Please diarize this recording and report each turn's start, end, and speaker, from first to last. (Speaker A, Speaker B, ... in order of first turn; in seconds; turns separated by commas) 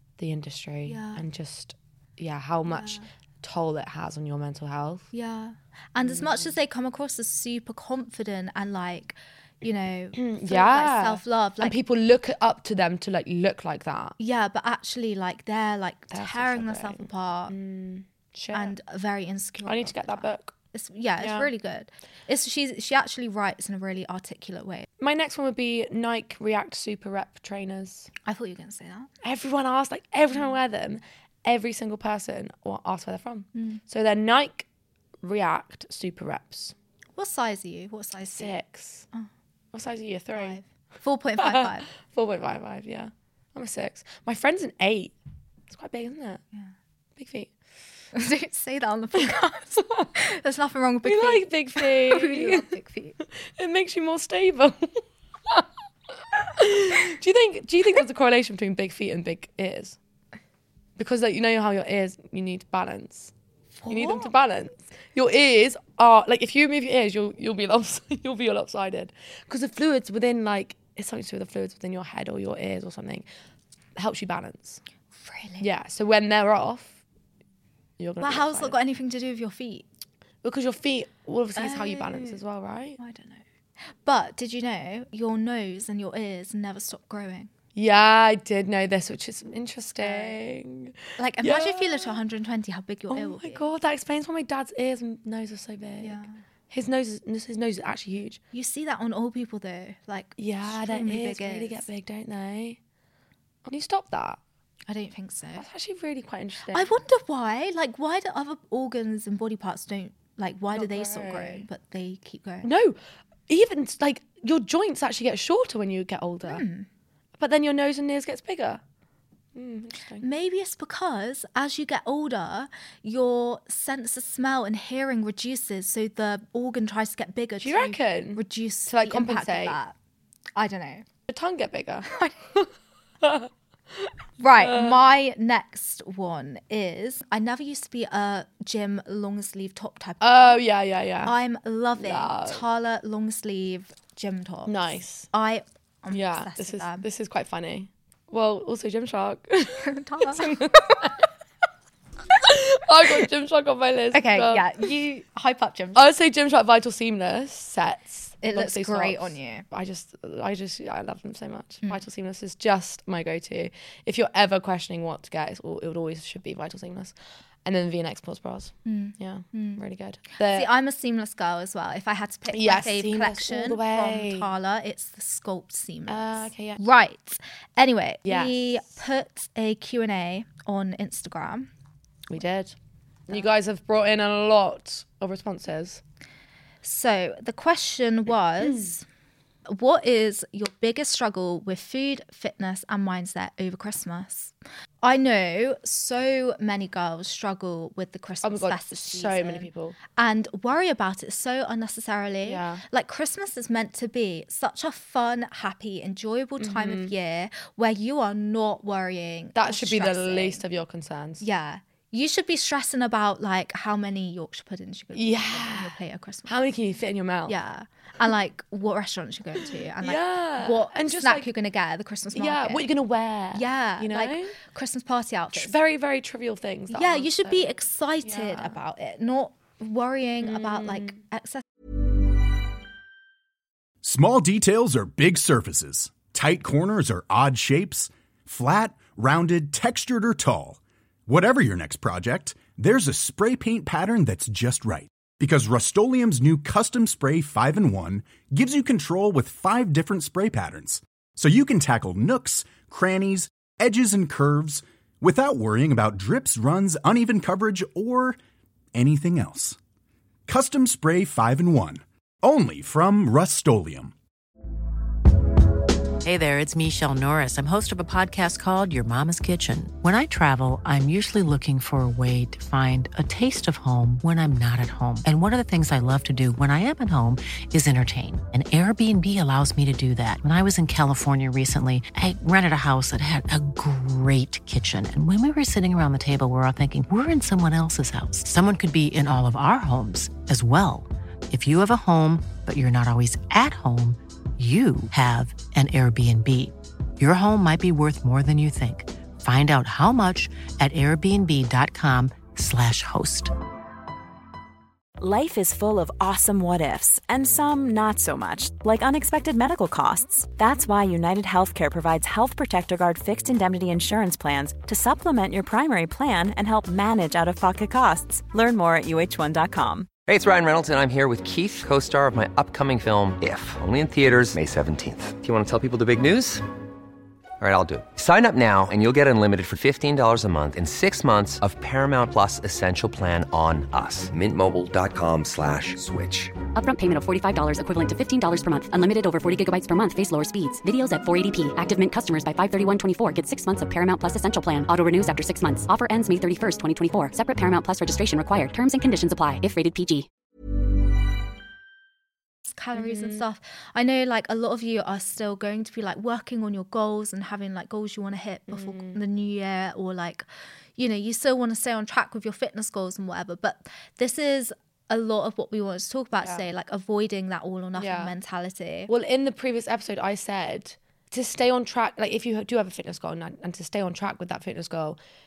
Speaker A: 0.2-5.1, Speaker B: 0.8-1.2, Speaker B: 2.7-3.1, Speaker B: 5.1-11.8, Speaker A: 6.0-6.5, Speaker A: 10.1-14.2, Speaker B: 14.2-17.5, Speaker A: 16.1-18.7, Speaker B: 18.5-24.9, Speaker A: 19.6-20.5, Speaker A: 21.2-21.5, Speaker A: 25.0-28.1, Speaker B: 28.2-29.1, Speaker A: 29.2-34.7, Speaker B: 33.5-33.8, Speaker A: 35.2-36.7, Speaker B: 37.1-38.6, Speaker A: 38.3-39.1, Speaker A: 39.7-40.6, Speaker B: 40.3-41.9, Speaker A: 41.4-45.1, Speaker A: 45.7-46.4, Speaker A: 47.1-47.5, Speaker B: 48.1-53.2, Speaker A: 51.0-52.7, Speaker A: 53.2-55.6, Speaker A: 56.3-60.0, Speaker A: 61.0-63.3, Speaker B: 63.8-64.3, Speaker A: 63.9-73.2, Speaker A: 74.0-74.8, Speaker B: 75.1-75.7, Speaker A: 75.6-77.0, Speaker A: 78.0-78.8, Speaker B: 78.2-79.8, Speaker A: 80.4-83.0, Speaker B: 81.5-82.4, Speaker B: 83.0-83.4, Speaker B: 84.0-87.5, Speaker A: 87.7-92.2, Speaker B: 90.0-90.4, Speaker B: 91.2-93.7, Speaker A: 93.1-98.4, Speaker B: 96.0-96.4, Speaker B: 98.5-101.9, Speaker A: 100.4-102.8, Speaker A: 103.6-104.4, Speaker B: 104.9-105.7, Speaker A: 105.6-106.9, Speaker B: 106.7-112.7, Speaker A: 110.7-111.7, Speaker A: 112.6-116.6, Speaker B: 116.4-116.9, Speaker A: 117.4-118.8, Speaker A: 119.5-120.2, Speaker B: 120.2-129.9, Speaker A: 127.6-129.8, Speaker B: 130.5-131.0, Speaker A: 131.3-132.6, Speaker B: 132.1-132.6, Speaker A: 133.2-135.0, Speaker B: 134.4-140.6, Speaker A: 140.2-141.3, Speaker B: 141.2-147.1, Speaker A: 141.9-142.6, Speaker A: 144.7-145.3, Speaker A: 146.1-151.3, Speaker B: 149.8-151.1, Speaker A: 152.3-154.8, Speaker B: 154.1-156.1, Speaker A: 155.9-170.7, Speaker B: 158.4-159.6, Speaker B: 168.8-169.8, Speaker B: 170.4-181.7, Speaker A: 172.5-174.5, Speaker A: 176.1-176.8, Speaker A: 178.2-178.8, Speaker A: 182.3-182.7, Speaker A: 183.3-186.0, Speaker B: 186.8-189.0, Speaker A: 188.6-188.9, Speaker B: 189.7-210.6, Speaker A: 198.4-200.0, Speaker A: 202.4-202.8, Speaker A: 206.6-207.1, Speaker A: 209.5-211.4, Speaker B: 211.4-216.5, Speaker A: 215.1-217.6, Speaker B: 217.5-222.8, Speaker A: 220.0-221.5, Speaker A: 222.3-224.6, Speaker B: 223.5-225.7, Speaker A: 225.5-228.8, Speaker B: 226.9-231.6, Speaker A: 230.4-231.2, Speaker C: 234.0-258.4, Speaker C: 258.9-259.8, Speaker C: 260.5-264.1, Speaker D: 266.2-303.5, Speaker E: 305.2-320.1, Speaker F: 320.2-326.6, Speaker F: 327.6-336.6, Speaker G: 336.7-350.3, Speaker B: 352.7-360.4, Speaker A: 352.9-353.4, Speaker A: 358.7-359.2, Speaker B: 361.0-369.1, Speaker A: 366.4-366.6, Speaker A: 367.9-368.3, Speaker A: 369.1-375.2